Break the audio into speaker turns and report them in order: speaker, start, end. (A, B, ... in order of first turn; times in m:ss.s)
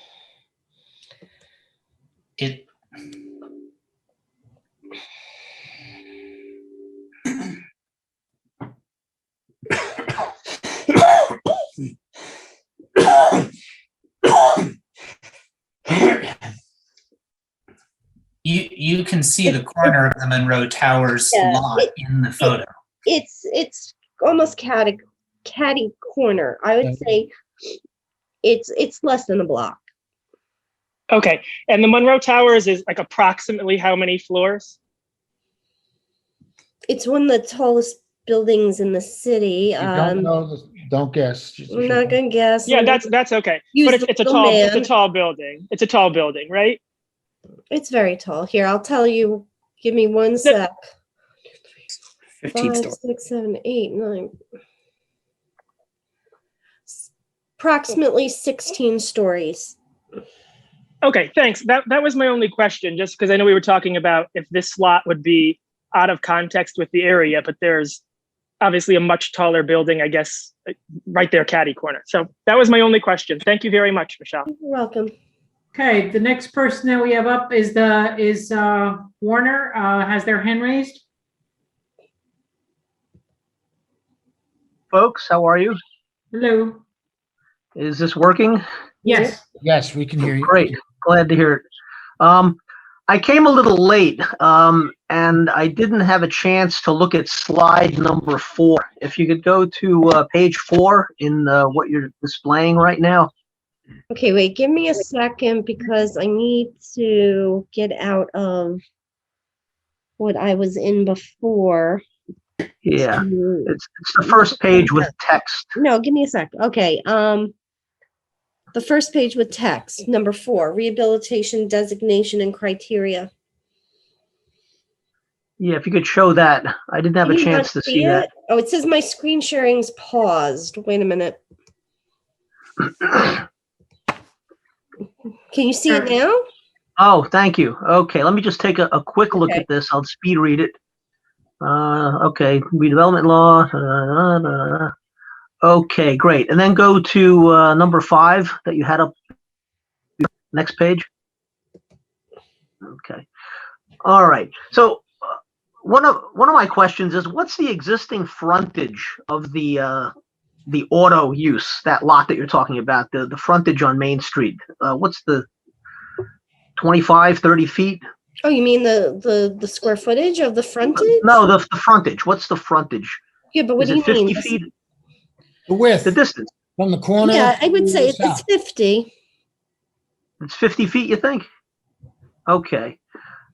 0:02.4-0:02.6 A
0:18.4-0:22.7 A
0:19.5-0:20.0 B
0:21.3-0:21.9 B
0:23.0-0:27.3 B
0:28.4-0:29.8 B
0:31.1-0:34.8 C
0:36.9-0:40.3 B
0:39.8-0:42.2 D
0:41.7-0:43.0 B
0:42.7-0:46.8 C
0:43.7-0:44.9 B
0:47.7-0:50.7 B
0:52.4-0:52.9 A
0:52.5-0:54.3 B
0:56.9-0:59.8 B
1:01.0-1:08.0 C
1:08.6-1:10.5 C
1:11.1-1:14.5 C
1:14.5-1:15.1 B
1:15.7-1:21.0 E
1:24.9-1:25.8 F
1:26.3-1:26.8 E
1:27.8-1:28.6 F
1:29.0-1:29.3 B
1:29.0-1:29.4 E
1:29.6-1:30.7 D
1:30.4-1:31.6 F
1:32.2-1:43.3 F
1:44.1-1:48.8 B
1:50.2-1:52.0 B
1:52.8-1:55.7 F
1:53.0-1:53.7 B
1:54.2-1:55.0 B
1:55.8-1:57.5 B
1:58.7-2:03.3 B
2:05.6-2:08.3 F
2:07.2-2:11.4 B
2:15.5-2:16.4 B
2:17.0-2:20.7 F
2:21.6-2:24.9 F
2:25.6-2:29.1 F
2:30.5-2:31.1 F
2:32.8-2:33.2 F
2:34.0-2:40.1 F
2:40.7-2:45.4 F
2:46.8-2:48.0 F
2:48.4-2:51.4 B
2:51.0-2:53.2 F
2:53.5-2:54.6 B
2:53.8-2:54.7 F
2:55.7-2:56.2 D
2:56.0-2:56.5 F
2:56.8-2:58.4 D
2:57.2-2:59.1 B
3:00.4-3:01.4 F
3:02.5-3:03.0 F